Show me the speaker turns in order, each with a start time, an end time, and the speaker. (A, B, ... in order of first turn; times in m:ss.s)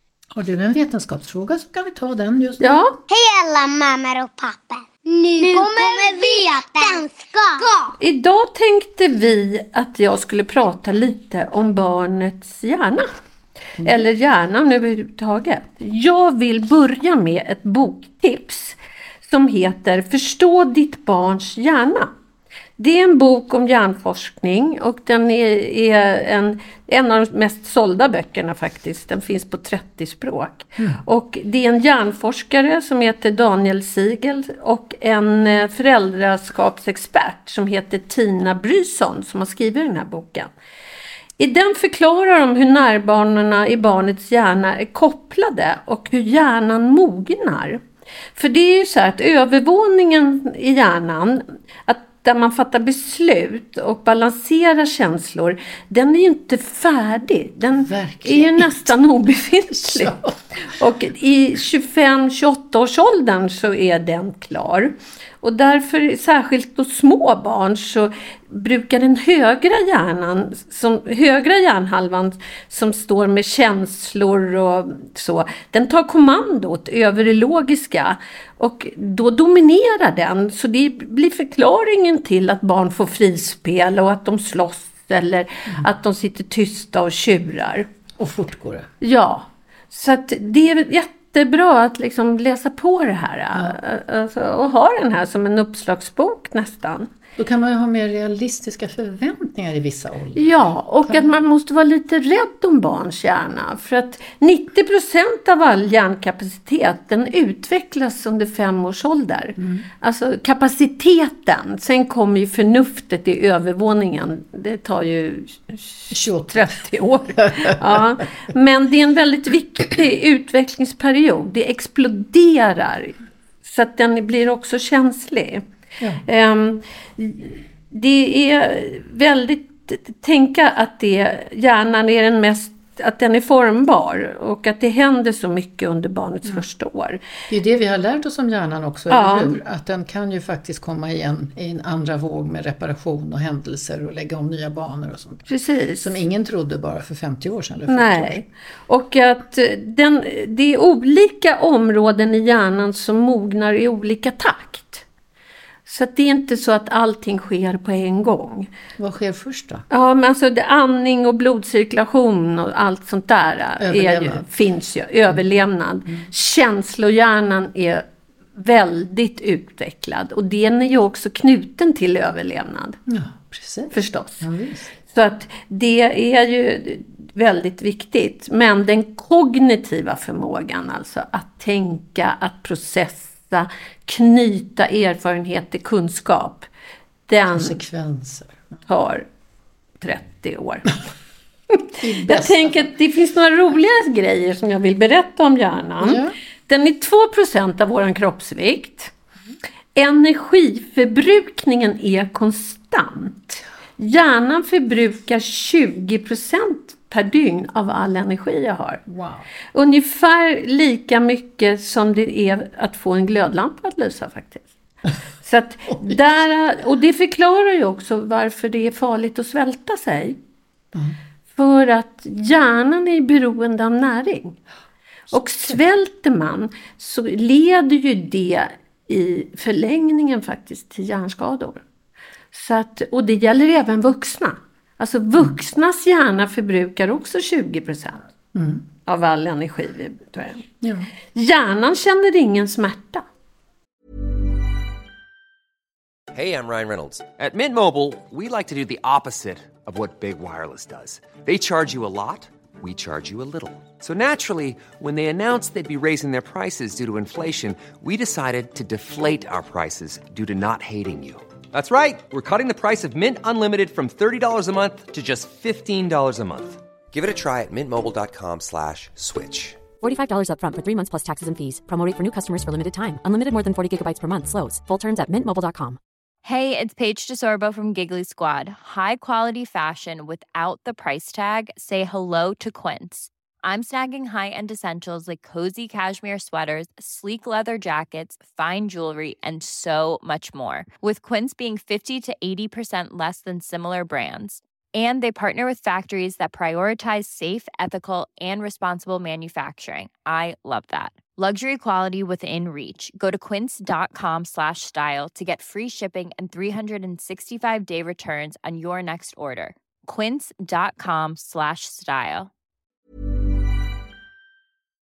0:00.3-0:02.8 A
0:02.6-0:03.0 B
0:03.1-0:07.8 C
0:08.0-0:13.1 B
0:13.8-0:22.1 B
0:22.8-0:40.5 B
0:41.4-0:47.8 B
0:48.3-1:27.9 B
0:57.8-0:58.9 A
0:59.7-1:00.6 A
1:28.2-1:28.9 A
1:29.0-1:37.1 B
1:37.4-1:41.3 A
1:40.4-2:05.6 B
1:49.6-1:49.8 A
1:56.1-1:58.0 A
2:06.2-2:17.2 B
2:17.5-2:28.4 A
2:19.1-2:19.6 B
2:25.5-2:26.2 B
2:27.9-2:35.0 B
2:35.8-2:38.7 B
2:39.0-2:39.8 A
2:39.9-2:48.0 B
2:43.8-2:44.4 A
2:48.6-2:53.0 B
2:53.1-2:54.9 A
2:53.9-2:54.4 B
2:55.0-3:06.7 B
3:07.3-3:07.8 B
3:07.5-3:08.6 A
3:08.9-3:09.2 B
3:10.0-3:11.0 B
3:11.7-3:19.1 B
3:12.0-3:12.9 A
3:16.0-3:16.3 A
3:19.9-3:29.0 B
3:29.1-3:29.4 A
3:29.7-3:34.7 B
3:35.4-3:40.4 B
3:41.5-3:44.6 B
3:45.3-3:51.8 B
3:52.5-3:58.2 B
3:58.5-3:58.8 A
3:59.0-4:00.7 B
4:00.8-4:01.1 A
4:01.3-4:03.2 B
4:06.3-4:29.8 D
4:30.0-4:36.0 E
4:36.4-5:12.5 F